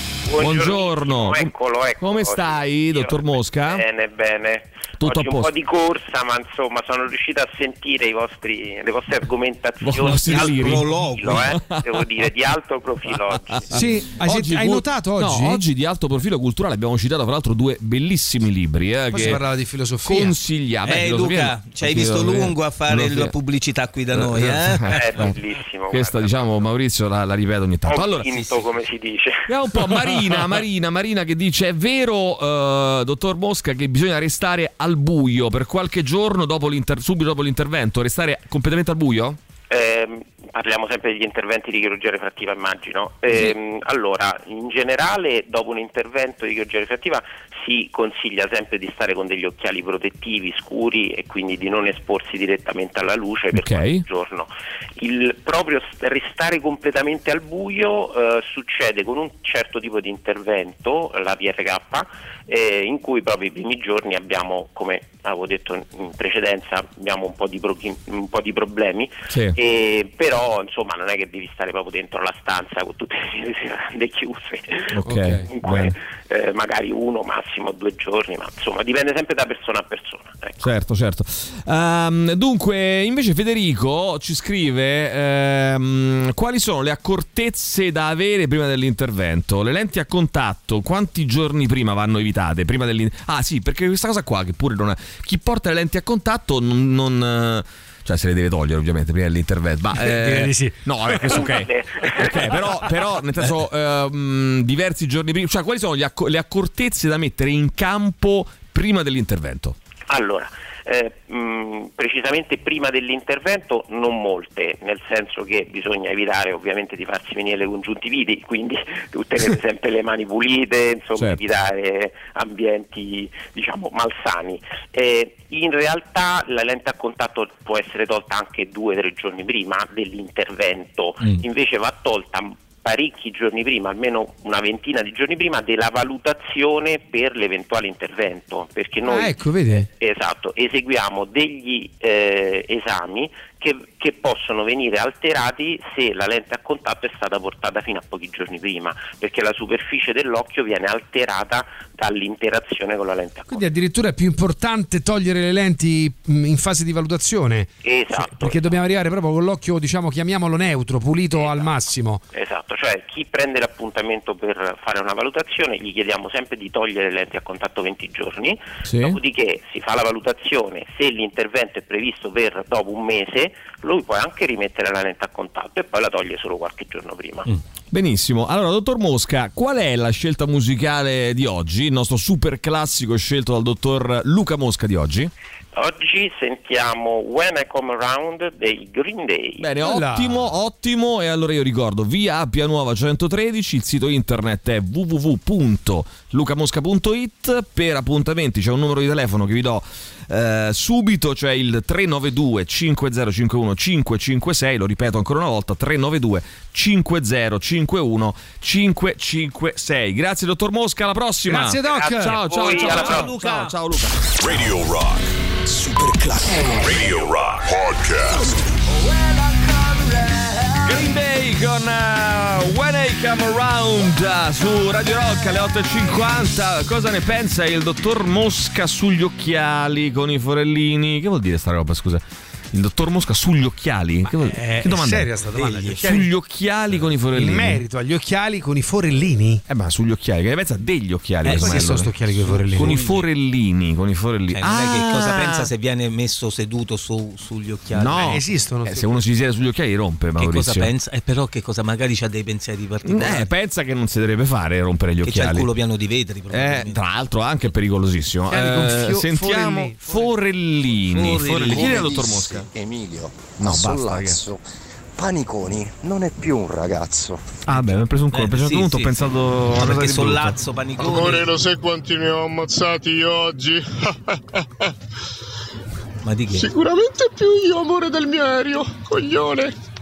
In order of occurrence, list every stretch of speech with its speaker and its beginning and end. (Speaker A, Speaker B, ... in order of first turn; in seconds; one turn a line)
Speaker A: 0.2-13.7
Speaker B: 0.4-3.8
Speaker B: 5.0-5.5
Speaker B: 9.8-12.2
Speaker C: 10.0-11.6
Speaker B: 13.1-19.4
Speaker D: 13.7-15.6
Speaker D: 19.1-20.4
Speaker B: 20.0-23.3
Speaker C: 20.8-25.1
Speaker B: 24.1-25.3
Speaker A: 24.9-26.7
Speaker B: 25.9-28.4
Speaker A: 27.9-29.5
Speaker C: 28.3-28.6
Speaker B: 29.5-39.4
Speaker A: 39.7-74.9
Speaker B: 53.5-54.0
Speaker B: 69.3-69.5
Speaker B: 74.9-75.9
Speaker D: 75.0-75.5
Speaker A: 75.5-80.6
Speaker B: 80.6-109.8
Speaker D: 99.9-101.5
Speaker A: 101.2-102.6
Speaker A: 110.1-153.6
Speaker D: 139.1-139.9
Speaker D: 153.5-162.2
Speaker A: 157.8-158.8
Speaker A: 161.3-161.7
Speaker A: 162.3-177.5
Speaker B: 168.8-169.2
Speaker B: 177.9-185.3
Speaker A: 185.7-189.7
Speaker B: 189.6-214.3
Speaker D: 189.8-190.5
Speaker D: 211.5-213.2
Speaker A: 212.0-213.1
Speaker C: 212.6-213.7
Speaker E: 214.4-215.3
Speaker E: 216.7-218.6
Speaker B: 220.8-235.3
Speaker D: 234.2-236.2
Speaker C: 235.5-236.1
Speaker B: 235.9-237.8
Speaker D: 237.3-239.6
Speaker B: 239.7-242.1
Speaker C: 241.4-243.3
Speaker D: 241.4-243.0
Speaker B: 242.7-245.7
Speaker C: 244.5-248.4
Speaker B: 247.9-250.9
Speaker D: 248.2-249.2
Speaker C: 250.4-253.5
Speaker B: 253.0-255.7
Speaker C: 255.2-257.0
Speaker B: 256.5-262.7
Speaker D: 258.5-260.3
Speaker C: 261.1-262.0
Speaker F: 261.7-264.5
Speaker B: 263.6-264.4
Speaker F: 265.2-267.3
Speaker B: 267.7-270.6
Speaker C: 268.3-271.6
Speaker G: 271.0-273.7
Speaker C: 276.2-276.7
Speaker G: 277.6-279.5